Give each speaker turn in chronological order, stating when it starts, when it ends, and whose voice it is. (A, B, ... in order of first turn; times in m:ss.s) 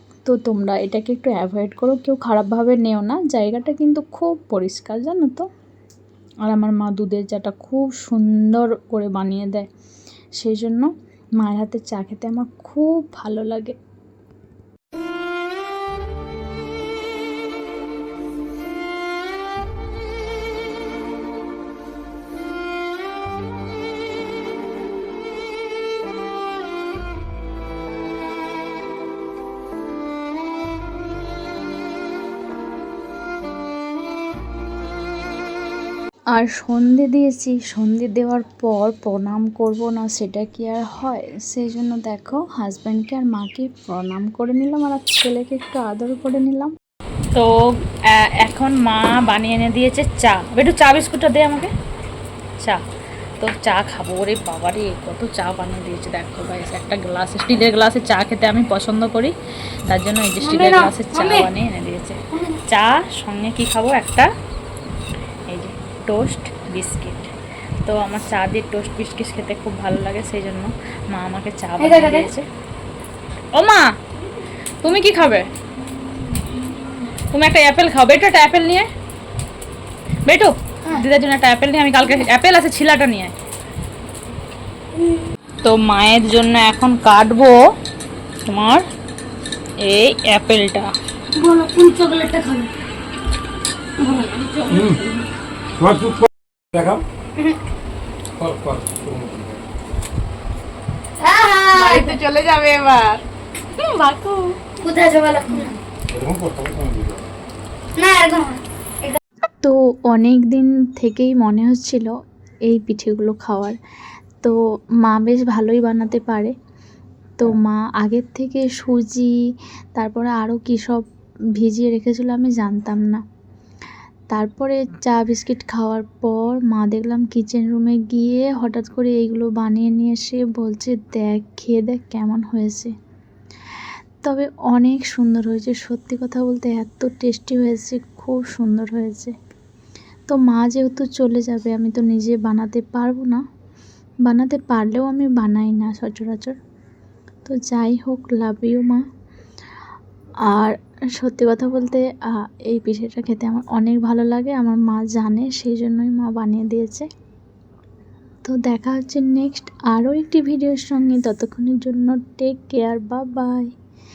0:00.2-0:05.5 A
0:06.4-0:09.7 A
0:10.4-0:13.8 A
0:36.3-0:46.8 A
0:47.3-0:51.7 B
0:53.4-0:59.3 B
0:59.9-1:04.3 B
1:00.4-1:01.5 C
1:05.5-1:07.3 B
1:07.8-1:12.4 B
1:11.8-1:12.3 C
1:13.6-1:13.9 B
1:14.8-1:15.5 B
1:17.3-1:18.9 B
1:20.3-1:23.4 B
1:25.6-1:27.6 B
1:28.5-1:28.8 B
1:29.8-1:30.9 B
1:31.4-1:32.7 C
1:34.0-1:35.2 C
1:34.7-1:35.0 D
1:35.8-1:37.0 D
1:38.4-1:39.6 D
1:41.2-1:42.2 C
1:41.7-1:43.2 B
1:43.8-1:44.8 B
1:44.8-1:45.7 C
1:46.1-1:47.3 D
1:48.0-1:49.2 C
1:49.6-1:52.1 A
1:52.7-1:53.8 A
1:54.4-1:56.5 A
1:57.4-1:59.4 A
2:00.0-2:01.0 A
2:01.6-2:03.2 A
2:04.3-2:12.9 A
2:14.2-2:19.3 A
2:20.3-2:23.4 A
2:24.2-2:26.6 A
2:27.5-2:29.0 A
2:30.5-2:37.1 A
2:38.4-2:43.7 A